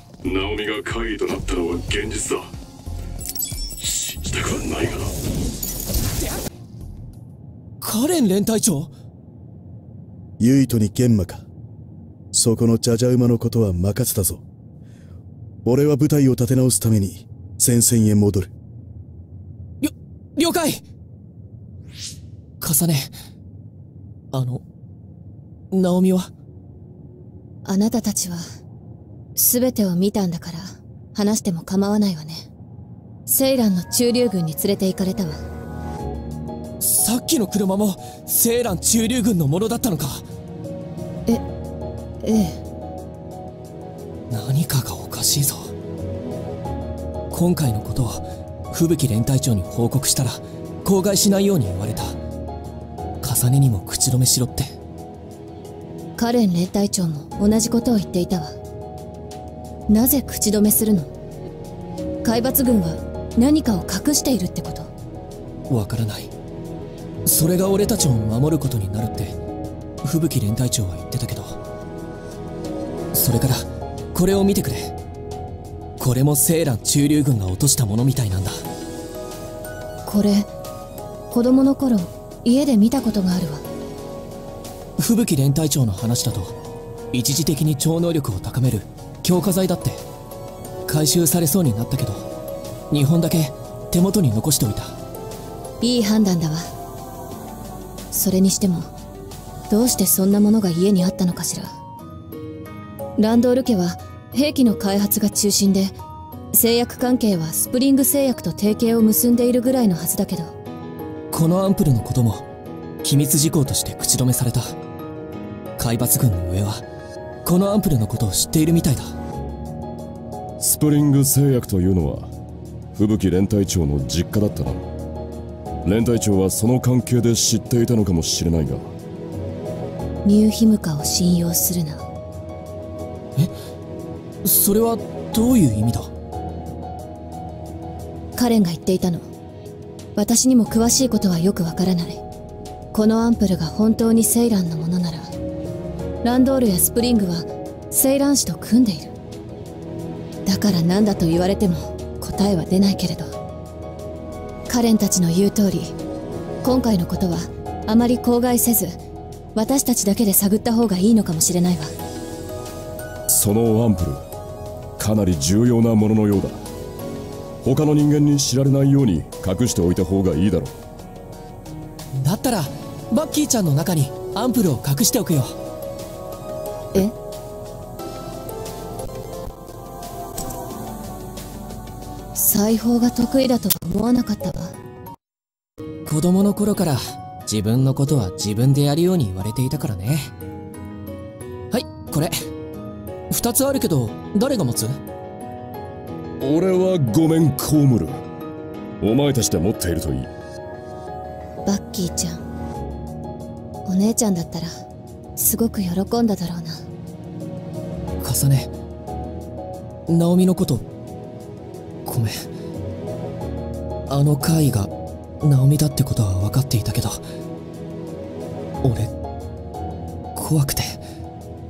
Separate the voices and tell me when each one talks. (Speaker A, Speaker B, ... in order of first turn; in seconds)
Speaker A: 0.3-2.5, 3.9-5.1
Speaker B: 0.3-1.1, 120.6-122.3, 122.9-124.8, 125.8-128.9, 163.3-164.2, 165.0-166.6, 167.6-170.7, 196.4-198.2, 199.0-200.3
Speaker C: 7.8-8.9, 19.8-20.8, 22.6-23.1, 24.3-24.6, 25.7-26.3, 36.8-40.2, 44.3-45.7, 47.3-52.2, 53.2-54.7, 65.7-66.3, 67.2-69.4, 70.0-71.6, 73.1-74.9, 76.0-78.6, 85.0-86.6, 87.1-90.0, 90.8-92.3, 92.9-94.9, 111.3-112.5, 113.0-114.8, 115.8-116.8, 117.4-119.1, 134.4-136.1, 172.2-175.5, 186.1-190.3, 191.7-192.4, 193.3-195.0, 208.2-208.7, 210.1-210.9, 212.0-212.5, 214.1-217.2, 218.8-219.1, 220.3-221.0
Speaker D: 10.4-11.4, 12.3-14.4, 15.6-18.5
Speaker E: 27.6-28.4, 29.4-32.4, 33.3-35.4, 42.2-42.6, 56.2-58.5, 59.9-61.1, 62.2-64.9, 80.0-80.5, 81.3-83.6, 95.8-96.7, 98.1-98.9, 99.7-101.7, 103.2-105.9, 106.5-110.5, 130.2-132.0, 138.3-139.2, 140.2-142.2, 142.9-145.3, 146.2-149.1, 150.4-153.3, 154.7-155.9, 156.6-159.0, 159.5-161.9, 182.3-184.7, 201.7-202.4, 203.8-204.7, 205.4-206.8